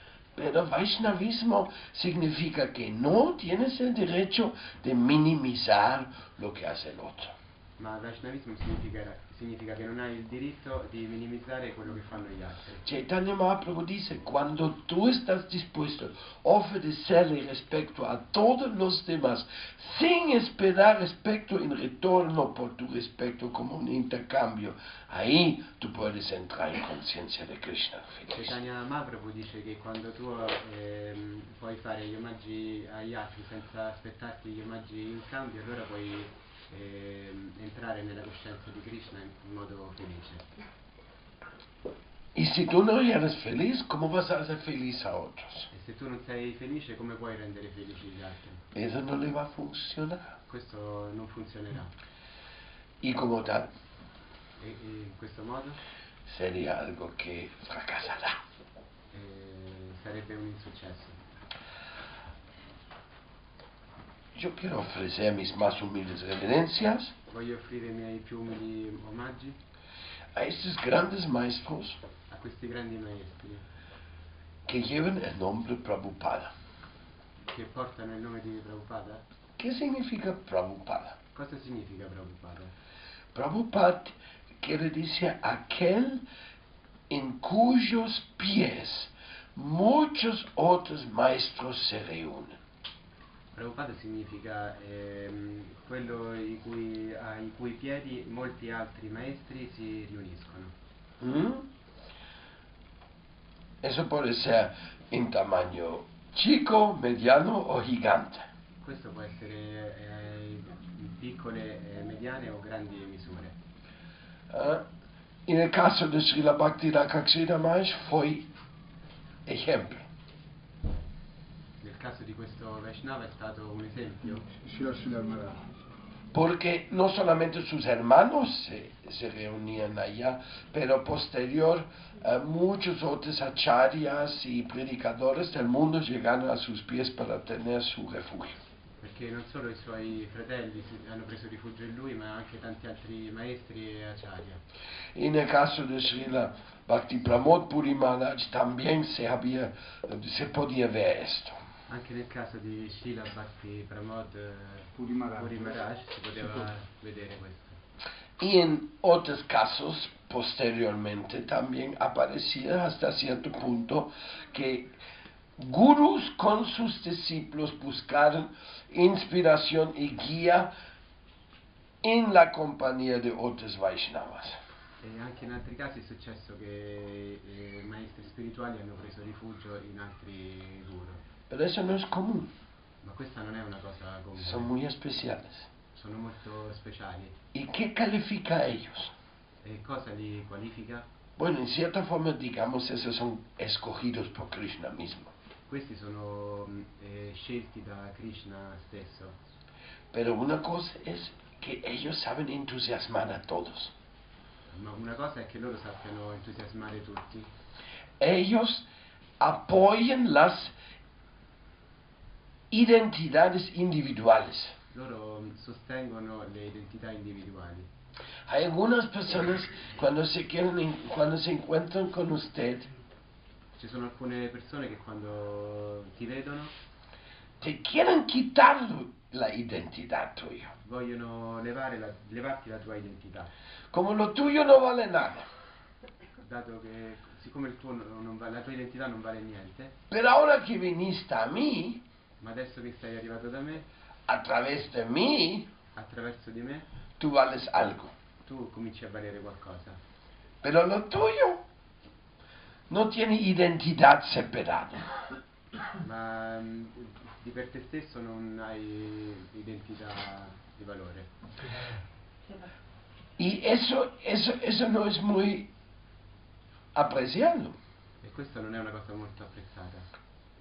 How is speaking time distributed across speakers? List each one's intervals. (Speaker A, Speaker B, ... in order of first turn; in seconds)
Speaker A: 0.3-7.3, 12.8-28.6, 42.3-45.7, 48.7-50.4, 53.0-53.7, 56.2-58.4, 64.3-67.1, 70.3-72.0, 74.7-76.5, 79.6-81.2, 83.3-86.2, 87.1-92.6, 101.2-101.7, 103.8-108.5, 114.5-114.9, 115.5-118.5, 119.5-120.1, 126.3-138.6, 145.1-151.6, 158.4-165.0, 165.6-170.7, 172.0-174.6, 181.5-182.5, 184.4-185.7, 187.5-189.1, 191.4-195.3, 200.1-203.9, 208.2-208.8, 209.4-210.7, 212.7-214.8, 218.5-222.9, 227.6-230.7, 233.9-235.5, 240.1-242.0, 244.3-245.7, 247.2-248.1, 250.6-251.6, 252.9-255.1, 263.4-265.7, 266.9-267.8
Speaker B: 7.8-12.8, 28.3-40.6, 45.7-48.6, 50.5-51.9, 54.6-55.8, 59.1-61.2, 67.3-69.6, 72.3-73.6, 77.5-79.2, 81.3-82.7, 93.5-100.7, 108.8-113.5, 121.8-124.5, 139.0-144.6, 151.9-157.8, 175.0-181.2, 183.0-184.7, 185.9-187.4, 189.6-191.1, 195.7-199.3, 204.7-207.5, 214.9-217.9, 223.8-226.7, 230.8-233.5, 236.4-240.0, 242.4-243.9, 245.9-246.9, 248.4-250.0, 256.0-261.3, 268.2-270.1
Speaker C: 124.5-125.6, 154.9-155.8, 156.4-156.7